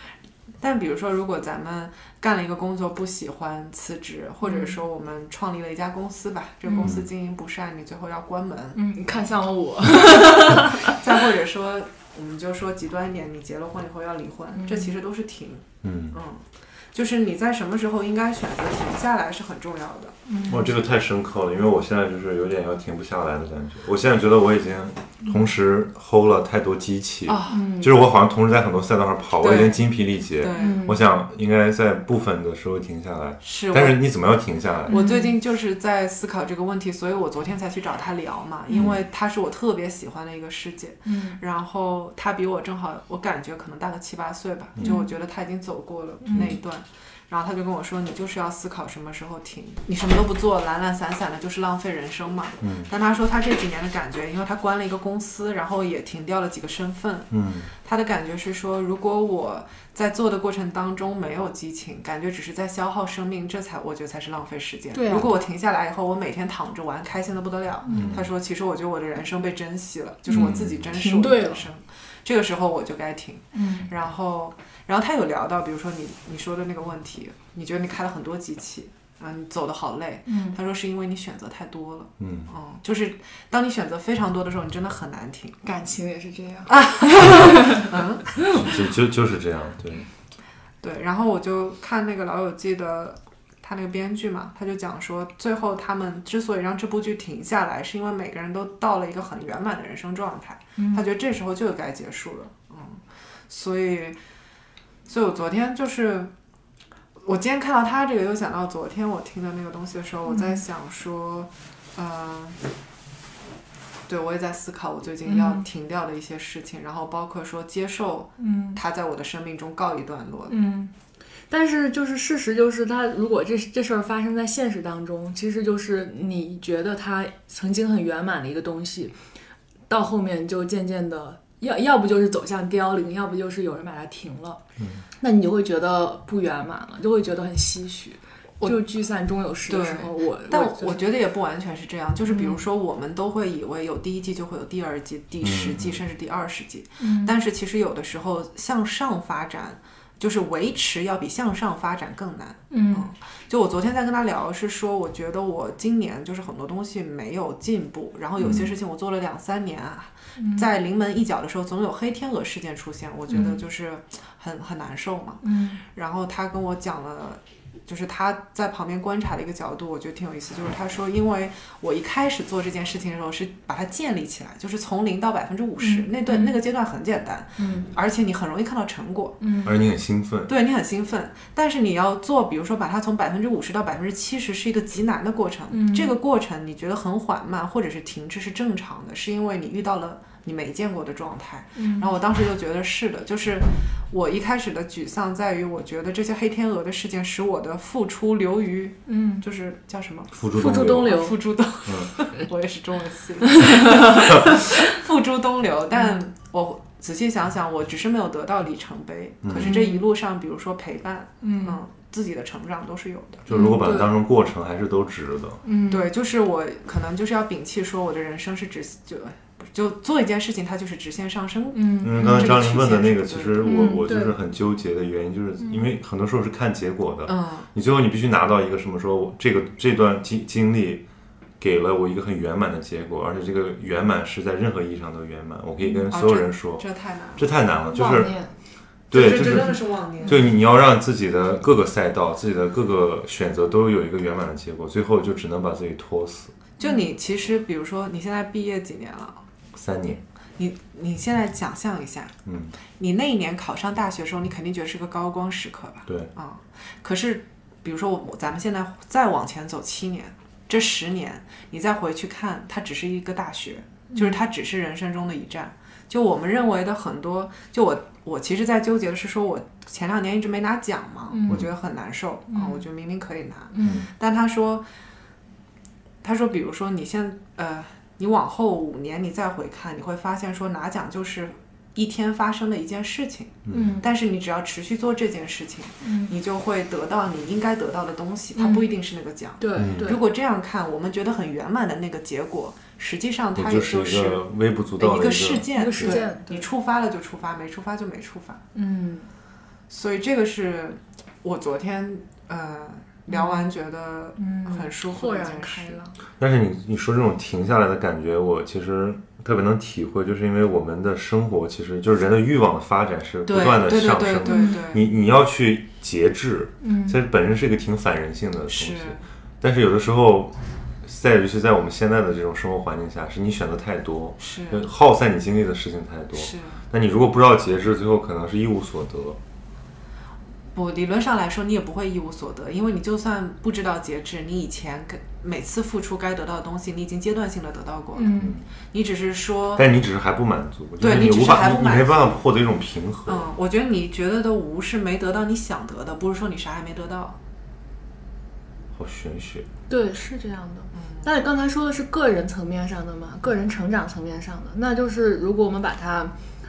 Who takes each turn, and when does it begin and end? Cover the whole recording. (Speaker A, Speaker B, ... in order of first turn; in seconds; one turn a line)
Speaker A: 0.6-8.9
Speaker B: 4.4-4.8
Speaker B: 6.7-6.9
Speaker B: 8.7-11.0
Speaker A: 10.0-20.1
Speaker B: 14.6-14.9
Speaker C: 15.8-16.1
Speaker B: 20.3-20.7
Speaker C: 20.4-35.0
Speaker A: 27.3-27.6
Speaker B: 27.5-28.0
Speaker A: 29.4-30.9
Speaker B: 30.5-31.0
Speaker A: 33.4-34.0
Speaker B: 34.9-35.4
Speaker A: 34.9-85.6
Speaker C: 38.7-39.0
Speaker B: 41.0-41.4
Speaker B: 44.8-45.1
Speaker B: 46.2-46.5
Speaker C: 52.6-52.9
Speaker C: 57.3-57.7
Speaker B: 64.9-65.3
Speaker B: 67.8-68.2
Speaker C: 67.9-68.3
Speaker C: 70.3-70.8
Speaker B: 70.4-71.6
Speaker B: 73.5-73.9
Speaker B: 80.3-80.6
Speaker C: 82.2-82.5
Speaker B: 85.6-88.0
Speaker A: 86.7-88.4
Speaker C: 88.5-90.1
Speaker A: 90.8-104.2
Speaker B: 100.8-101.0
Speaker A: 105.0-106.3
Speaker A: 107.2-112.6
Speaker B: 110.3-110.6
Speaker A: 114.1-120.5
Speaker B: 115.2-115.7
Speaker B: 118.4-118.8
Speaker B: 120.5-120.9
Speaker B: 121.5-129.1
Speaker B: 129.9-134.6
Speaker B: 135.2-141.0
Speaker A: 139.7-179.4
Speaker B: 142.2-142.6
Speaker C: 145.4-146.0
Speaker B: 147.0-147.3
Speaker B: 152.7-153.1
Speaker C: 158.4-158.7
Speaker B: 160.4-160.7
Speaker B: 165.4-165.8
Speaker B: 175.8-176.6
Speaker B: 177.6-177.9
Speaker B: 179.4-179.8
Speaker C: 179.6-180.5
Speaker A: 180.5-200.3
Speaker B: 185.7-186.1
Speaker B: 191.8-192.1
Speaker B: 199.1-199.4
Speaker C: 200.3-201.2
Speaker B: 200.4-201.4
Speaker A: 200.9-213.5
Speaker C: 201.8-202.1
Speaker B: 203.6-204.3
Speaker C: 209.4-209.8
Speaker B: 209.6-210.0
Speaker B: 211.4-211.8
Speaker C: 213.5-215.6
Speaker B: 213.5-214.1
Speaker B: 215.6-216.1
Speaker A: 215.9-224.0
Speaker B: 221.7-222.6
Speaker C: 222.0-231.0
Speaker B: 223.6-224.3
Speaker B: 225.6-225.9
Speaker A: 227.3-227.7
Speaker C: 231.6-236.8
Speaker A: 236.1-237.5
Speaker C: 237.4-238.3
Speaker B: 237.9-238.5
Speaker C: 239.1-246.5
Speaker A: 239.1-240.5
Speaker A: 246.8-249.4
Speaker C: 249.7-250.2
Speaker A: 250.6-252.3
Speaker C: 252.4-252.8
Speaker A: 252.9-274.8
Speaker B: 264.1-264.4
Speaker B: 271.3-271.7
Speaker B: 272.5-272.8
Speaker B: 273.7-274.1
Speaker C: 273.8-274.1
Speaker A: 276.2-294.4
Speaker C: 283.6-284.0
Speaker B: 283.7-284.0
Speaker B: 286.0-286.3
Speaker B: 288.6-288.9
Speaker B: 289.6-290.2
Speaker C: 289.8-290.2
Speaker C: 293.5-296.2
Speaker A: 295.0-298.6
Speaker B: 295.7-296.7
Speaker B: 298.7-299.3
Speaker A: 299.9-306.0
Speaker B: 303.3-303.7
Speaker B: 304.4-306.1
Speaker C: 306.4-329.4
Speaker A: 313.5-315.0
Speaker B: 314.4-314.8
Speaker B: 316.8-317.2
Speaker A: 318.7-319.2
Speaker A: 324.4-324.9
Speaker A: 326.3-326.8
Speaker A: 330.7-338.4
Speaker B: 338.1-338.6
Speaker C: 338.4-338.6
Speaker A: 338.9-339.9
Speaker C: 339.8-343.5
Speaker A: 341.0-342.4
Speaker A: 343.2-347.4
Speaker C: 348.9-349.7
Speaker B: 349.9-356.3